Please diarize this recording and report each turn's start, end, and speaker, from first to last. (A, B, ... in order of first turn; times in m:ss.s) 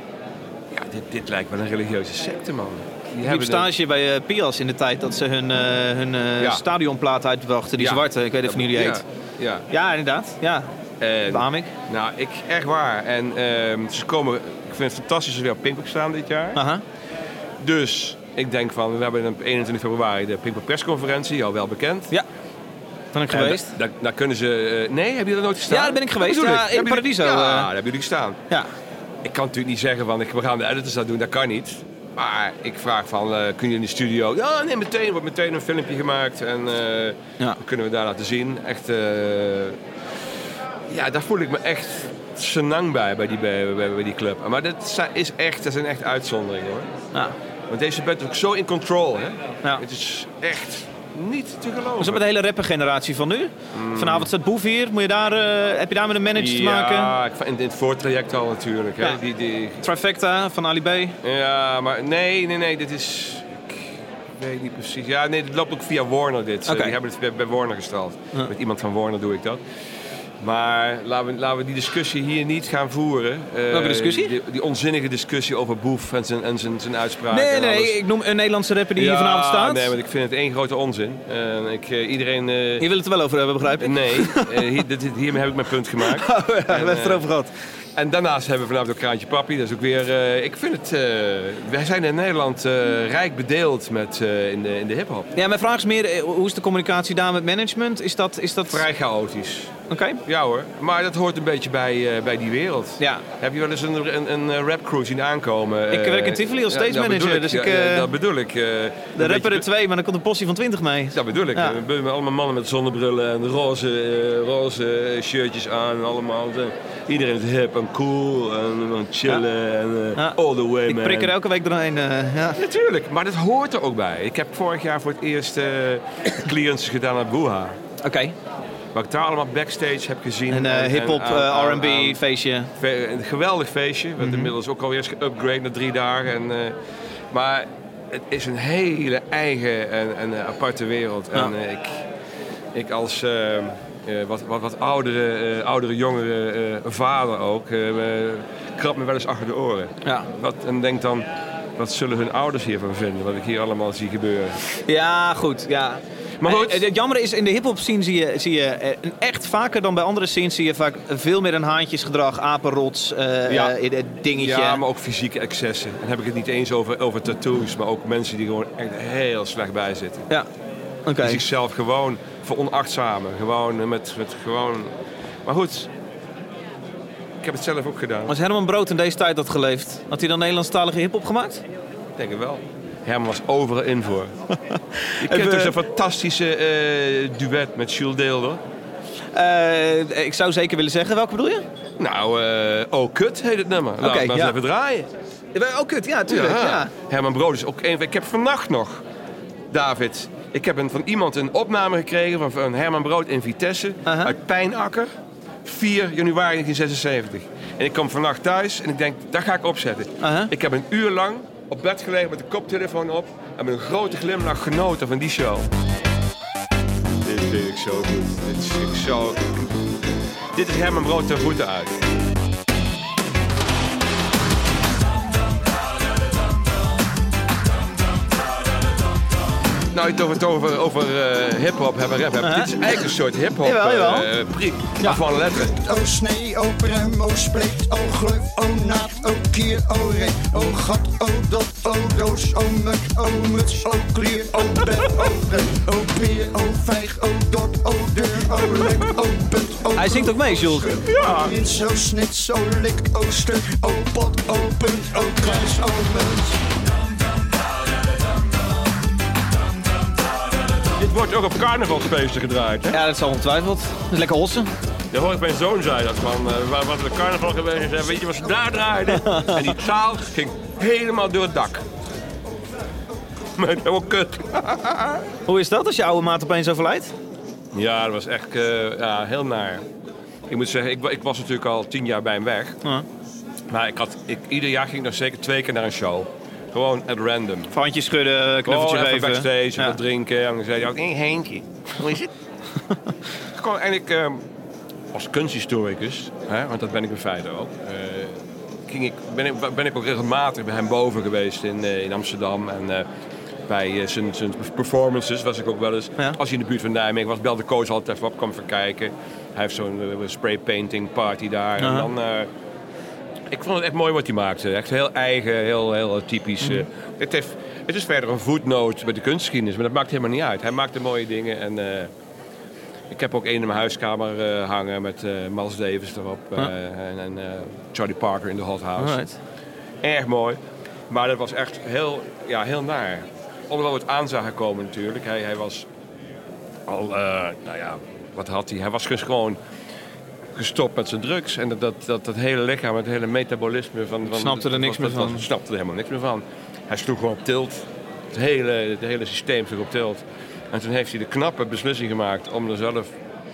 0:00.7-0:03.7 A
0:03.2-0:09.0 B
0:07.8-0:09.7 A
0:09.7-0:10.7 B
0:11.0-0:16.6 A
0:11.3-0:11.7 B
0:16.6-0:16.8 B
0:17.6-0:22.1 A
0:23.1-0:23.7 B
0:23.3-0:28.4 A
0:25.7-0:27.7 B
0:29.2-0:39.8 A
0:40.9-0:46.9 A
0:47.7-0:52.2 A
0:52.0-0:57.1 B
0:53.7-0:54.3 A
0:56.4-0:59.8 A
0:59.8-1:01.2 B
1:01.2-1:09.6 A
1:06.7-1:07.0 B
1:10.4-1:18.0 A
1:13.7-1:14.3 B
1:17.3-1:19.9 B
1:19.0-1:22.9 A
1:22.8-1:24.8 B
1:23.8-1:27.3 A
1:26.0-1:27.5 B
1:28.0-1:35.3 A
1:35.4-1:38.8 B
1:38.7-1:39.7 A
1:39.9-1:40.2 B
1:40.2-1:49.7 A
1:43.0-1:43.2 B
1:45.9-1:48.1 B
1:49.2-1:51.8 B
1:51.1-2:01.3 A
2:00.2-2:02.6 B
2:02.6-2:07.8 A
2:08.0-2:08.4 B
2:08.9-2:12.2 A
2:10.5-2:12.7 B
2:12.8-2:16.8 A
2:14.2-2:14.5 B
2:17.3-2:22.0 A
2:22.7-2:34.6 A
2:34.9-2:44.8 B
2:36.4-2:36.8 A
2:43.5-2:43.8 A
2:44.4-2:50.3 A
2:51.1-2:51.4 B
2:51.2-2:54.9 A
2:55.4-2:55.9 A
2:57.4-2:58.4 A
2:58.3-3:01.6 B
3:02.2-3:04.4 A
3:04.7-3:05.7 B
3:05.2-3:08.6 A
3:09.3-3:11.6 B
3:12.0-3:15.1 A
3:14.0-3:14.6 B
3:15.5-3:16.9 B
3:16.3-3:19.0 A
3:19.7-3:25.1 A
3:24.1-3:24.3 B
3:25.6-3:35.7 A
3:30.2-3:30.5 B
3:37.2-3:39.5 A
3:40.5-3:42.1 A
3:49.9-3:55.8 A
3:52.4-3:52.8 B
3:53.6-3:54.3 B
3:55.7-4:16.6 C
4:10.0-4:10.9 B
4:11.0-4:11.6 A
4:20.9-4:23.0 A
4:22.9-4:24.7 B
4:25.1-4:31.8 A
4:29.2-4:29.7 B
4:33.6-4:35.2 A
4:35.5-4:37.1 B
4:37.7-4:39.9 A
4:40.5-4:42.8 A
4:43.7-4:47.7 A
4:47.7-4:50.0 B
4:48.6-4:52.3 A
4:53.5-4:54.4 A
4:55.1-5:03.1 A
5:03.7-5:12.5 A
5:11.8-5:12.1 B
5:13.5-5:22.1 A
5:23.1-5:29.2 A
5:29.0-5:29.4 B
5:30.0-5:35.9 A
5:36.9-5:39.6 A
5:40.6-5:53.1 A
5:44.3-5:45.4 B